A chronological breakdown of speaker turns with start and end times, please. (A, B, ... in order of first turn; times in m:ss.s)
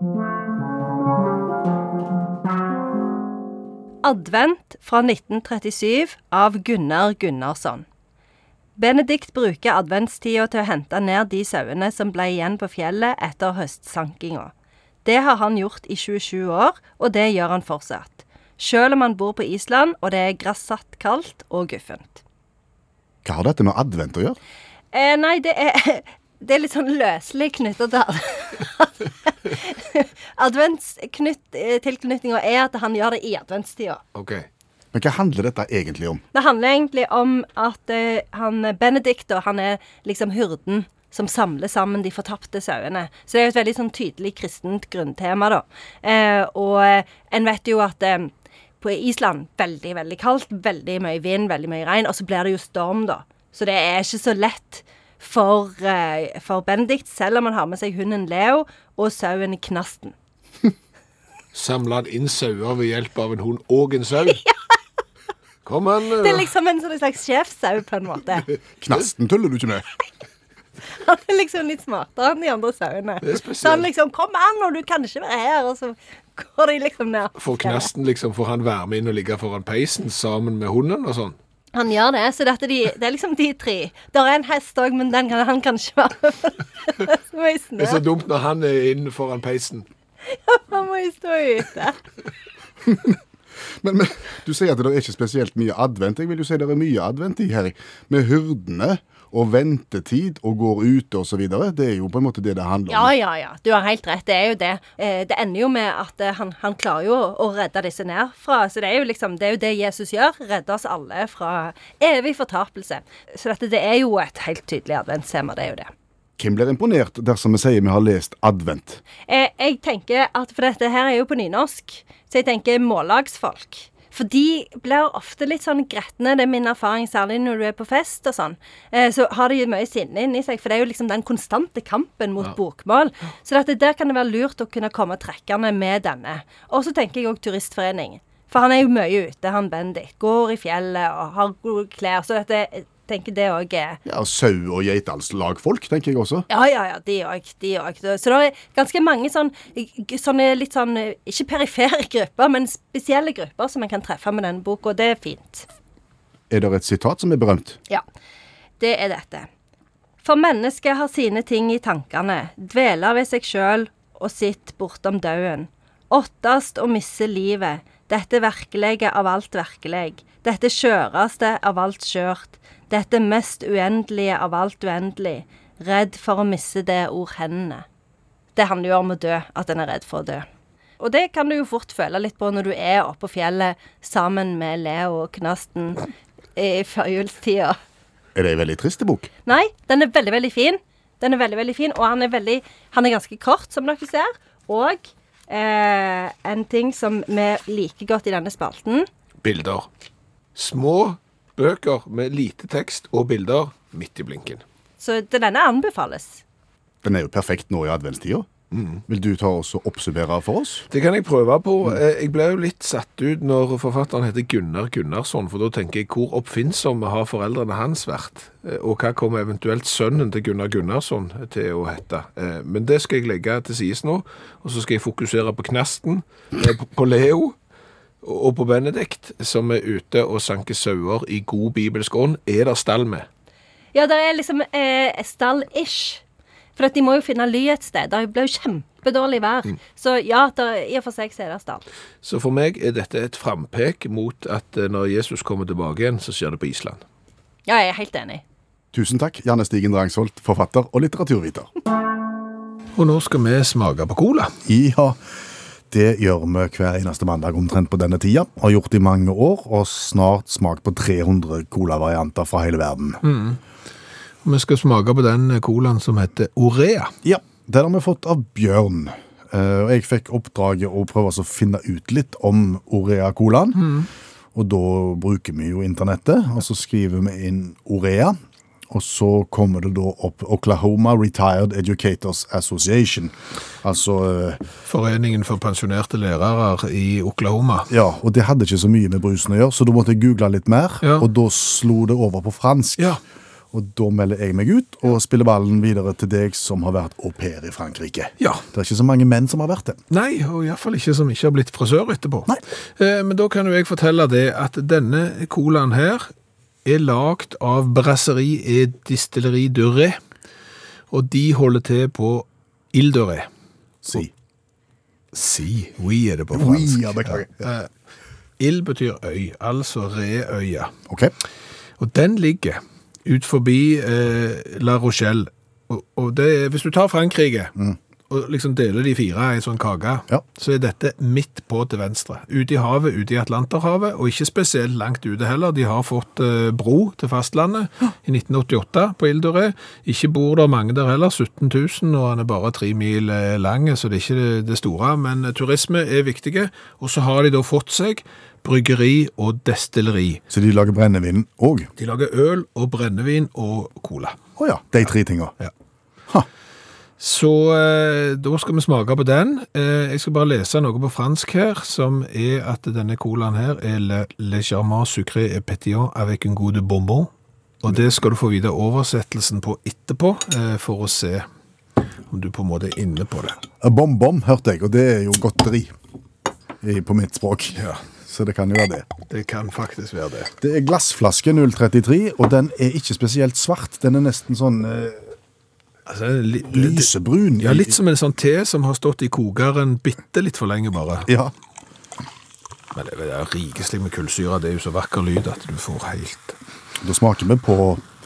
0:04.0-0:07.8 A
0:08.8-0:14.5 A
0:15.0-0:22.2 A
0:23.2-0:24.4 B
0:24.9-0:34.0 A
0:34.1-0:34.5 C
0:34.9-0:36.2 B
0:36.3-1:00.1 A
1:01.5-1:04.4 C
1:04.3-1:04.5 A
1:05.6-1:06.5 C
1:06.1-1:08.5 A
1:08.8-1:09.9 B
1:10.9-1:17.9 A
1:13.2-1:13.8 C
1:17.4-1:21.4 C
1:21.7-1:28.0 A
1:27.8-1:29.8 C
1:30.2-1:32.0 A
1:32.9-1:33.1 B
1:33.8-1:43.1 B
1:42.9-1:55.9 A
1:56.4-1:59.0 B
1:59.2-2:24.0 A
2:24.0-2:26.4 B
2:26.5-2:35.7 A
2:36.5-2:37.8 B
2:38.8-2:39.5 A
2:40.2-2:57.8 A
2:58.6-3:00.4 A
3:01.0-3:07.8 A
3:08.3-3:09.3 B
3:09.4-3:19.1 A
3:19.4-3:19.9 C
3:20.5-3:24.6 C
3:25.0-3:26.4 A
3:27.0-3:28.5 B
3:28.7-3:29.0 C
3:29.1-3:30.8 B
3:30.9-3:47.6 C
3:48.2-3:53.3 C
3:53.9-3:56.2 A
3:56.8-4:01.8 A
4:02.2-4:07.0 C
4:07.7-4:08.4 A
4:08.9-4:11.7 B
4:13.0-4:14.5 C
4:14.6-4:15.2 B
4:15.9-4:23.2 B
4:23.2-4:23.6 C
4:24.4-4:27.1 C
4:27.2-4:33.9 B
4:33.8-4:34.1 C
4:34.5-4:38.4 B
4:38.9-4:44.6 B
4:44.8-4:47.9 C
4:47.9-4:53.1 B
4:51.0-4:51.3 C
4:53.7-5:00.0 B
4:58.4-4:58.6 C
5:00.1-5:06.3 C
5:06.8-5:10.2 C
5:11.1-5:13.5 C
5:14.0-5:14.3 B
5:15.3-5:17.9 C
5:16.5-5:17.6 B
5:18.6-5:20.9 C
5:21.1-5:21.3 B
5:22.0-5:27.7 C
5:28.3-5:50.4 C
5:50.5-5:51.9 B
5:52.0-5:54.4 C
5:54.6-5:55.6 B
5:57.2-6:07.3 C
6:07.8-6:11.5 C
6:12.3-6:13.6 C
6:13.8-6:15.9 B
6:16.8-6:19.1 B
6:17.8-6:18.0 C
6:19.3-6:20.5 C
6:20.6-6:25.3 B
6:26.1-6:31.3 C
6:26.7-6:28.0 B
6:31.3-6:31.5 B
6:32.9-6:36.6 C
6:37.0-6:38.0 B